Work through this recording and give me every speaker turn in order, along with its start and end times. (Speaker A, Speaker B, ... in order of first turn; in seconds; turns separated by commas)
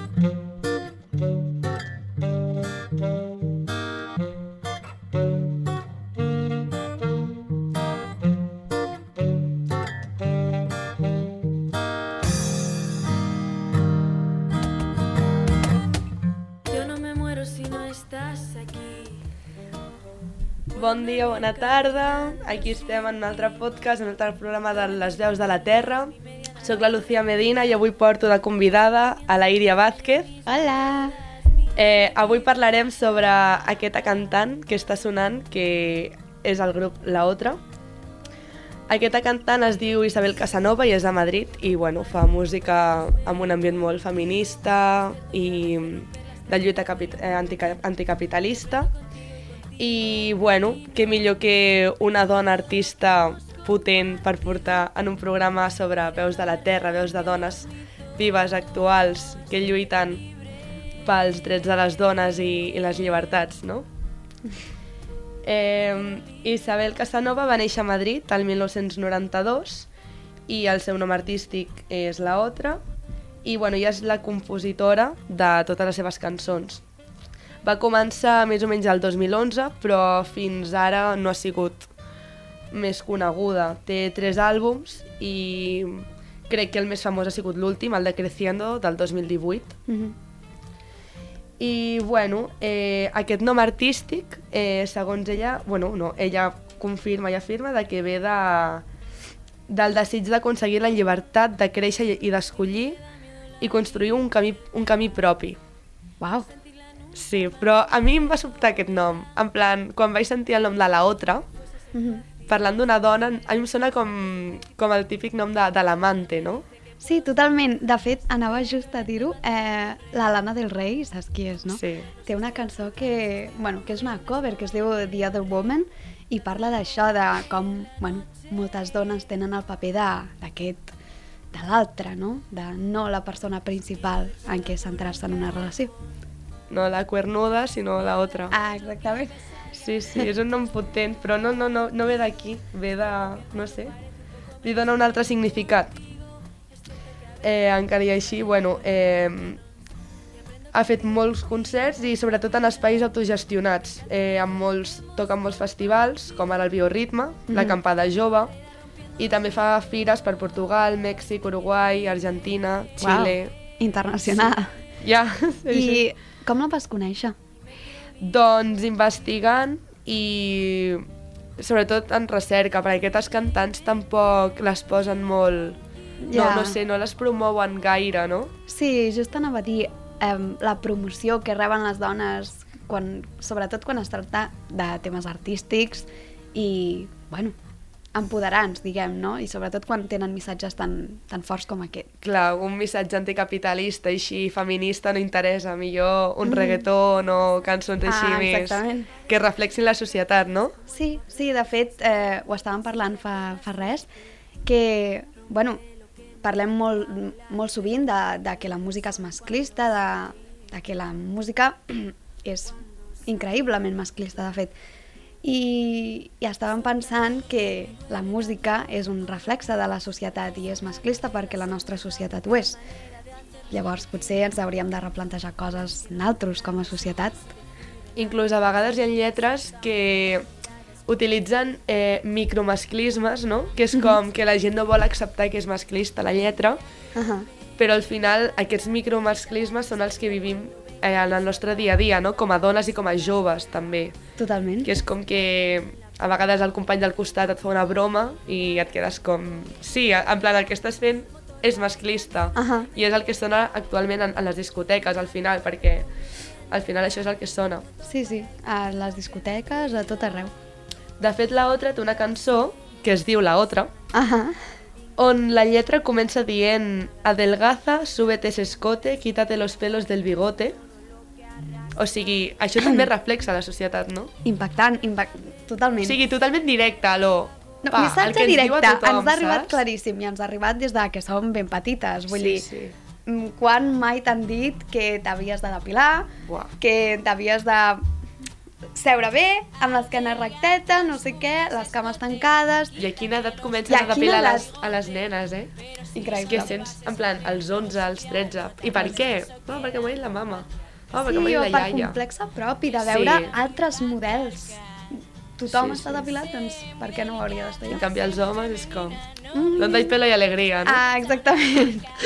Speaker A: 16.7-19.1, Speaker A: 20.7-30.4, Speaker B: 30.5-31.2, Speaker A: 31.8-37.6, Speaker A: 38.9-48.9, Speaker A: 49.8-60.3, Speaker A: 61.0-63.9, Speaker A: 65.4-69.9, Speaker A: 70.5-72.8, Speaker A: 73.4-76.8, Speaker A: 77.6-81.9, Speaker A: 82.7-89.8, Speaker B: 89.9-90.2, Speaker A: 91.6-98.8, Speaker A: 99.7-103.0, Speaker A: 103.6-105.6, Speaker B: 106.2-106.5, Speaker A: 107.1-111.5, Speaker B: 111.9-112.2, Speaker A: 112.5-116.6, Speaker B: 117.0-130.9, Speaker A: 121.7-122.1, Speaker B: 131.5-135.9, Speaker A: 136.7-138.6, Speaker B: 138.5-139.4, Speaker A: 139.7-143.9, Speaker A: 144.6-146.0, Speaker A: 147.4-149.6, Speaker A: 150.7-158.5, Speaker B: 157.5-157.8, Speaker A: 159.2-163.5, Speaker B: 163.0-164.8, Speaker A: 164.3-166.1, Speaker B: 165.7-167.4, Speaker A: 168.2-171.1, Speaker A: 171.6-175.8, Speaker B: 176.2-176.8, Speaker A: 176.3-178.5, Speaker B: 178.7-187.6, Speaker B: 188.1-192.1, Speaker A: 192.2-200.7, Speaker B: 196.4-196.8, Speaker B: 198.1-199.1, Speaker B: 200.9-204.1, Speaker B: 204.7-205.8, Speaker B: 206.4-212.8, Speaker B: 213.3-214.7, Speaker B: 215.4-222.8, Speaker B: 223.7-227.4, Speaker A: 228.2-230.5, Speaker A: 231.1-236.8, Speaker B: 237.2-237.5, Speaker A: 237.8-244.2, Speaker B: 244.4-244.9, Speaker A: 244.8-256.1, Speaker B: 252.6-252.9, Speaker A: 256.7-257.9, Speaker B: 258.0-260.5, Speaker A: 261.2-263.9, Speaker B: 264.1-264.7, Speaker A: 265.2-270.8, Speaker A: 272.0-274.3, Speaker B: 274.4-276.2, Speaker A: 276.0-279.8, Speaker B: 277.8-282.6, Speaker A: 282.3-282.9, Speaker B: 283.3-288.0, Speaker A: 286.5-286.7, Speaker B: 288.9-293.0, Speaker A: 293.0-295.7, Speaker B: 293.9-294.7, Speaker B: 296.1-296.8, Speaker A: 296.4-302.2, Speaker B: 301.3-304.8, Speaker A: 303.0-303.6, Speaker B: 305.6-308.0, Speaker A: 305.7-306.3, Speaker A: 307.9-309.2, Speaker B: 309.5-310.1, Speaker A: 309.8-311.0, Speaker B: 310.9-312.1